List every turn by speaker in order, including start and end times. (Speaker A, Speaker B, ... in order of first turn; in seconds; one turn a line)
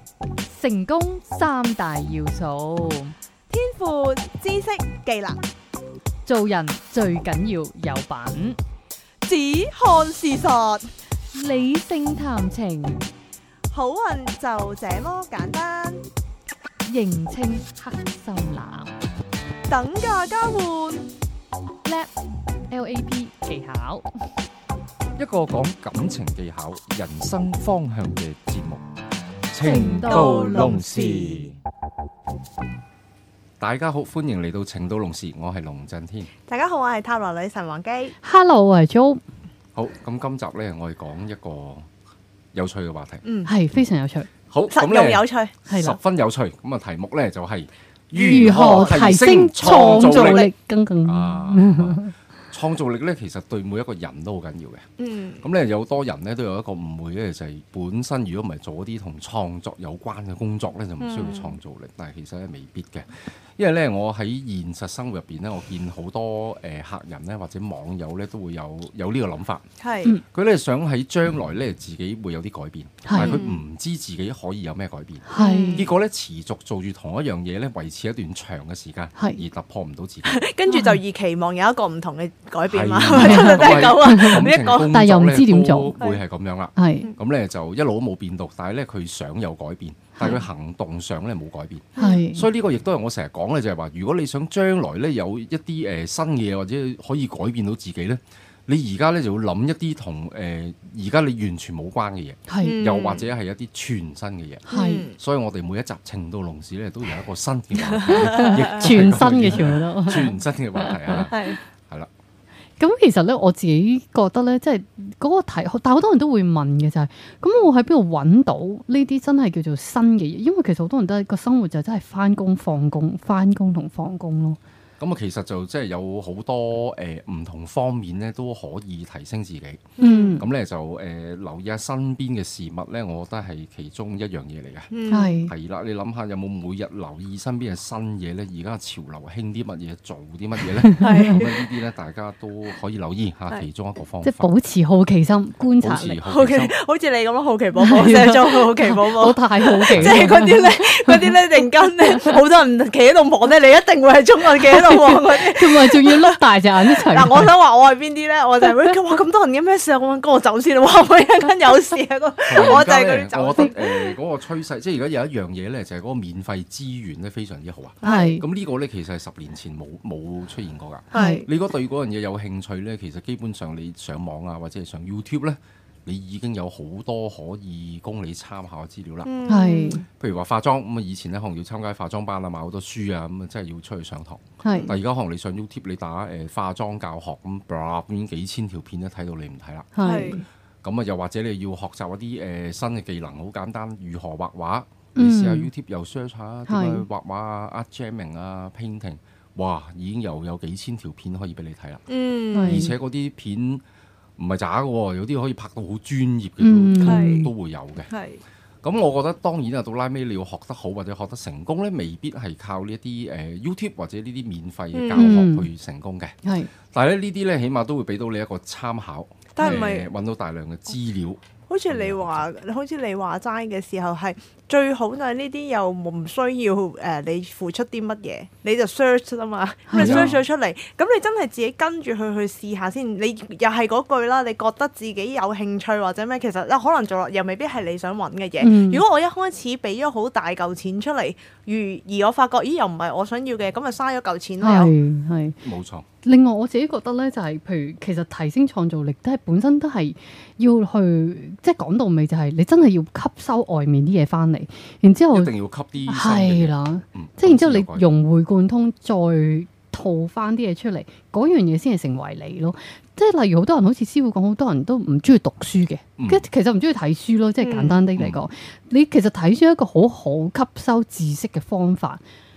Speaker A: 0.5-3.1
Speaker B: 3.5-5.4
Speaker A: 6.2-8.6
Speaker B: 9.2-10.9
Speaker A: 11.3-13.1
Speaker B: 13.7-16.0
Speaker A: 16.9-18.9
Speaker B: 19.7-21.0
Speaker A: 21.8-22.1
Speaker A: 22.7-24.1
Speaker C: 25.2-28.8
Speaker C: 29.5-31.6
Speaker A: 29.6-30.8
Speaker B: 30.0-31.5
Speaker C: 33.6-36.3
Speaker B: 36.5-38.1
Speaker A: 38.2-39.2
Speaker C: 39.7-41.9
Speaker C: 42.5-43.8
Speaker B: 43.2-43.5
Speaker A: 43.5-44.3
Speaker C: 44.5-50.5
Speaker B: 44.7-45.5
Speaker A: 45.7-46.0
Speaker A: 48.1-52.1
Speaker B: 48.5-50.5
Speaker C: 51.0-54.9
Speaker B: 55.0-55.4
Speaker C: 55.4-69.6
Speaker B: 61.0-61.5
Speaker B: 69.8-70.1
Speaker C: 70.2-80.4
Speaker A: 73.0-73.4
Speaker B: 73.2-73.6
Speaker A: 75.3-75.9
Speaker B: 75.3-75.9
Speaker A: 79.1-79.4
Speaker B: 80.2-84.9
Speaker A: 80.7-81.0
Speaker C: 82.7-112.1
Speaker A: 83.1-86.0
Speaker A: 86.8-87.1
Speaker B: 91.9-92.2
Speaker A: 92.0-92.5
Speaker A: 102.5-102.8
Speaker B: 102.6-103.3
Speaker A: 104.7-105.1
Speaker B: 104.7-105.2
Speaker B: 107.8-109.1
Speaker A: 108.1-111.3
Speaker B: 111.3-111.6
Speaker A: 112.8-124.6
Speaker C: 125.0-134.9
Speaker B: 130.0-130.3
Speaker A: 130.0-130.4
Speaker B: 134.9-135.3
Speaker A: 135.1-135.5
Speaker C: 135.4-144.5
Speaker A: 140.8-141.3
Speaker B: 141.0-141.7
Speaker A: 144.2-146.2
Speaker C: 145.7-146.7
Speaker B: 146.3-156.4
Speaker A: 147.8-152.3
Speaker C: 149.9-150.3
Speaker A: 154.7-157.5
Speaker B: 156.9-164.1
Speaker A: 158.6-158.9
Speaker C: 162.5-179.3
Speaker B: 168.0-168.4
Speaker A: 168.0-168.4
Speaker B: 171.1-171.5
Speaker A: 171.1-171.4
Speaker B: 179.2-180.0
Speaker A: 179.5-180.0
Speaker C: 180.1-202.0
Speaker B: 184.6-184.9
Speaker A: 184.6-184.9
Speaker A: 189.9-190.4
Speaker B: 190.0-190.4
Speaker A: 195.2-195.7
Speaker A: 196.7-197.0
Speaker B: 202.1-202.8
Speaker A: 202.5-202.9
Speaker C: 202.6-203.8
Speaker C: 204.4-208.1
Speaker A: 206.6-207.5
Speaker B: 207.0-207.5
Speaker B: 208.1-208.4
Speaker C: 208.8-222.4
Speaker B: 214.9-215.3
Speaker A: 215.1-215.7
Speaker A: 216.4-216.7
Speaker B: 219.5-220.1
Speaker B: 221.7-244.9
Speaker A: 229.9-230.3
Speaker C: 229.9-230.4
Speaker A: 238.6-239.0
Speaker A: 244.6-245.6
Speaker C: 245.6-246.1
Speaker A: 246.2-255.5
Speaker C: 255.3-258.1
Speaker A: 256.1-272.2
Speaker C: 266.2-266.4
Speaker B: 267.6-268.0
Speaker C: 268.1-268.4